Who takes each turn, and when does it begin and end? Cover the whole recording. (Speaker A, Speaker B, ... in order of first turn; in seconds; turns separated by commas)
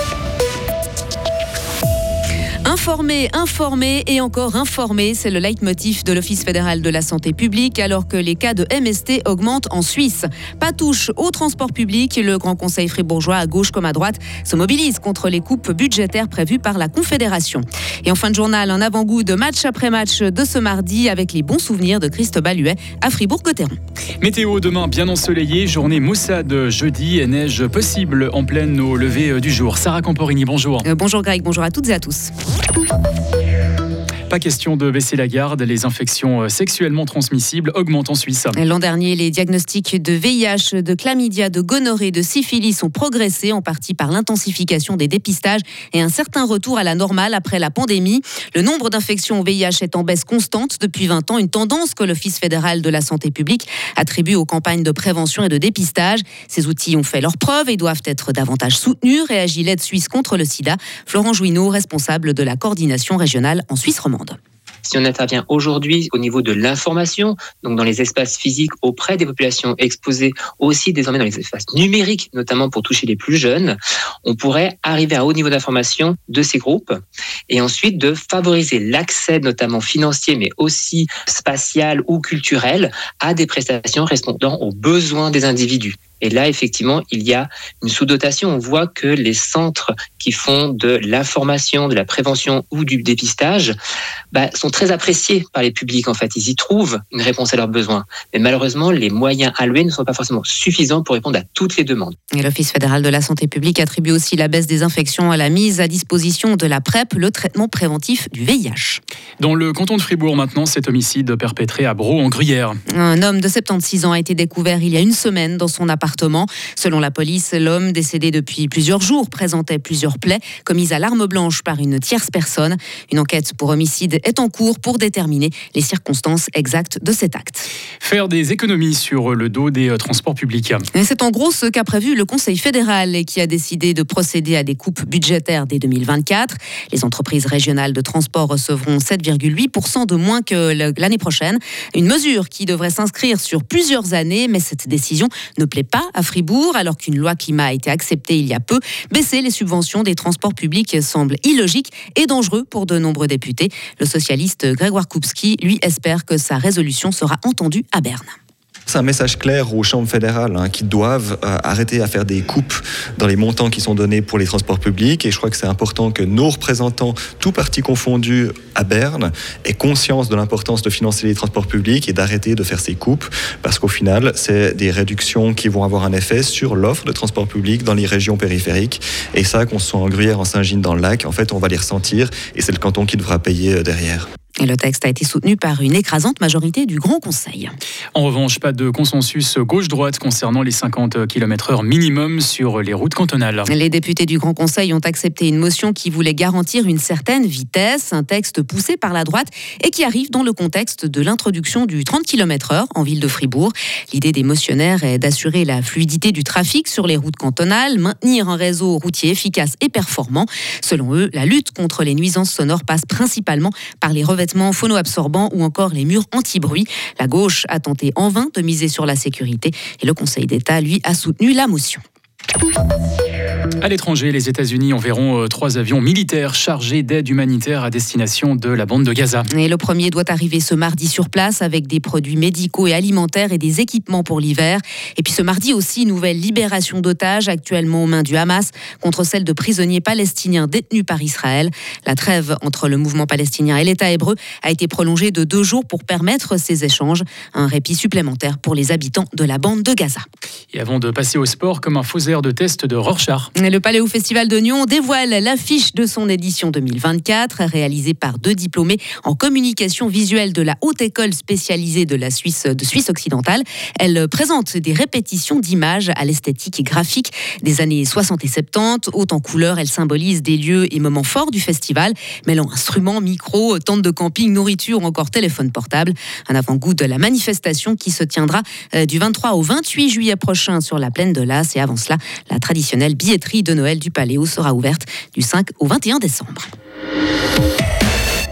Speaker A: 2.6-23.8, Speaker B: 24.2-30.9, Speaker A: 30.8-32.3, Speaker B: 34.3-38.5, Speaker A: 38.6-64.4, Speaker C: 64.8-93.8, Speaker C: 94.3-102.2, Speaker A: 102.4-109.0, Speaker B: 109.4-112.8, Speaker A: 112.9-127.7, Speaker B: 128.0-130.8, Speaker A: 130.9-158.3, Speaker D: 158.9-184.3, Speaker A: 184.6-187.7, Speaker B: 188.2-193.7, Speaker A: 193.7-222.0, Speaker B: 223.8-229.5, Speaker A: 229.5-250.2, Speaker B: 250.7-253.5, Speaker A: 253.6-286.7